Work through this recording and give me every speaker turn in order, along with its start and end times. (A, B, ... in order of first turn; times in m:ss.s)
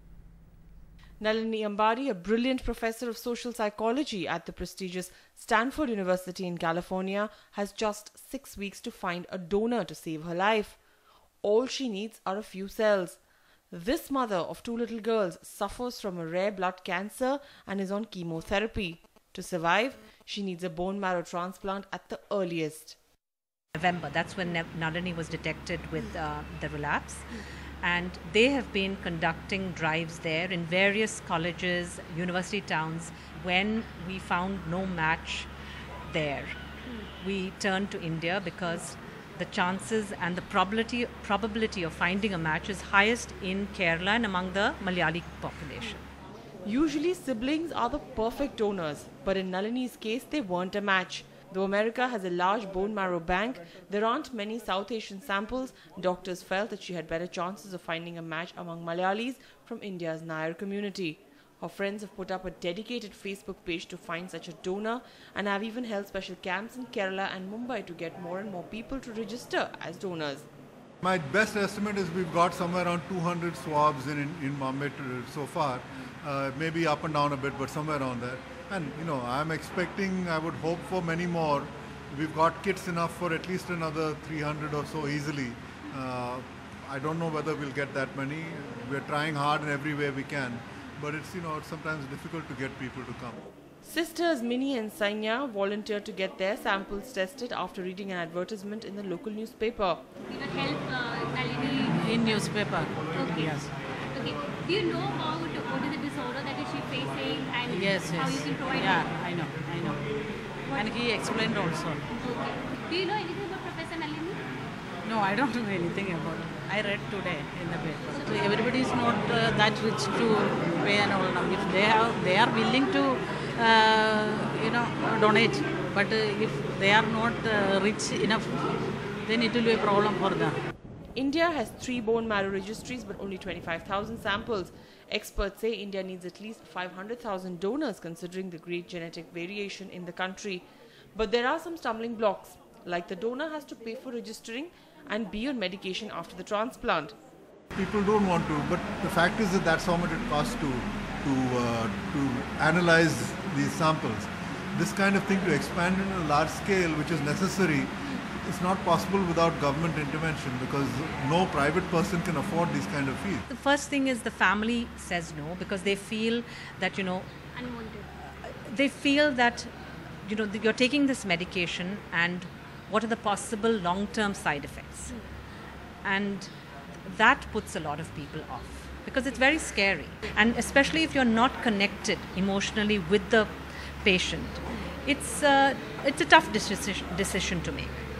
0:01.2-0:10.8 A
0:11.4-0:13.2 A
0:13.7-0:23.0 A
0:23.8-0:35.5 B
0:36.1-0:36.6 B
0:37.2-0:46.0 B
0:46.6-1:10.5 A
1:11.0-1:33.4 C
1:33.8-1:40.0 A
1:40.3-1:42.4 D
1:41.9-1:43.7 E
1:43.2-1:43.6 D
1:44.1-1:49.1 D
1:47.7-1:50.0 E
1:50.7-1:52.1 E
1:52.1-1:54.4 D
1:55.0-2:08.6 E
1:58.2-1:58.4 D
2:09.2-2:10.6 E
2:11.2-2:27.2 A
2:27.8-2:43.4 C
2:43.5-2:47.3 B
2:47.5-2:48.1 D
2:48.4-2:49.7 B
2:50.2-2:55.2 B
2:56.0-2:56.5 B
2:57.0-3:08.0 B